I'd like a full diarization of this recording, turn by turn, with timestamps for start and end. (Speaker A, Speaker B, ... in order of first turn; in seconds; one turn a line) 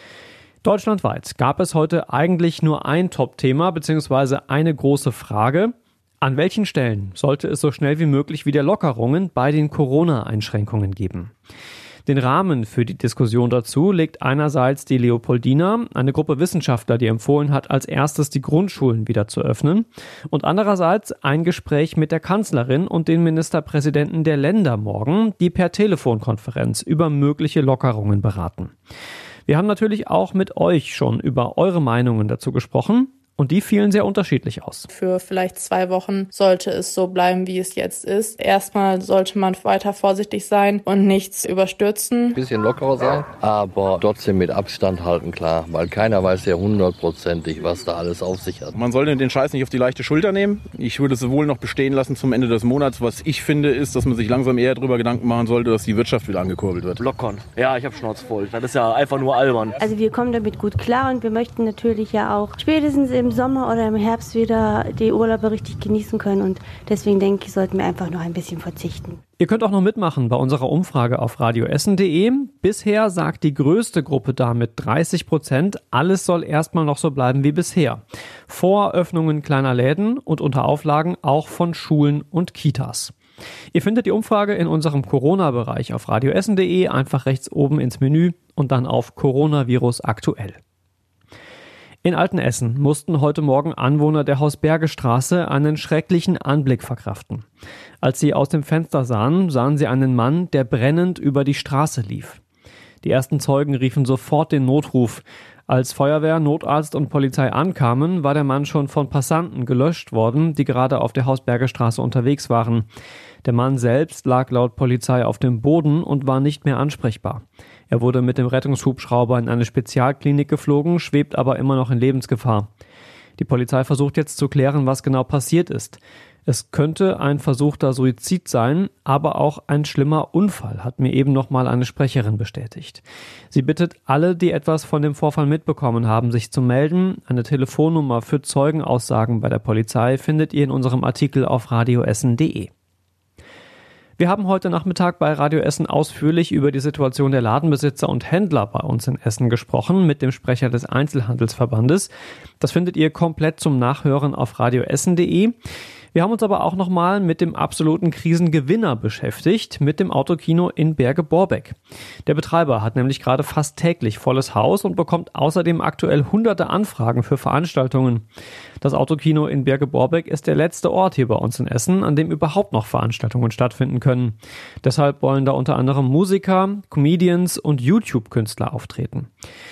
Speaker A: 0.6-11.3
Speaker A: 12.1-28.7
Speaker A: 29.5-34.9
Speaker B: 34.9-42.4
Speaker C: 42.3-48.8
Speaker D: 48.8-57.0
Speaker E: 57.0-59.8
Speaker F: 59.8-69.2
Speaker A: 69.4-83.1
Speaker A: 83.7-90.6
Speaker A: 92.0-97.4
Speaker A: 98.0-102.4
Speaker A: 103.0-112.8
Speaker A: 113.4-122.7
Speaker A: 123.4-142.7
Speaker A: 144.2-155.5
Speaker A: 156.1-168.2
Speaker A: 168.8-179.3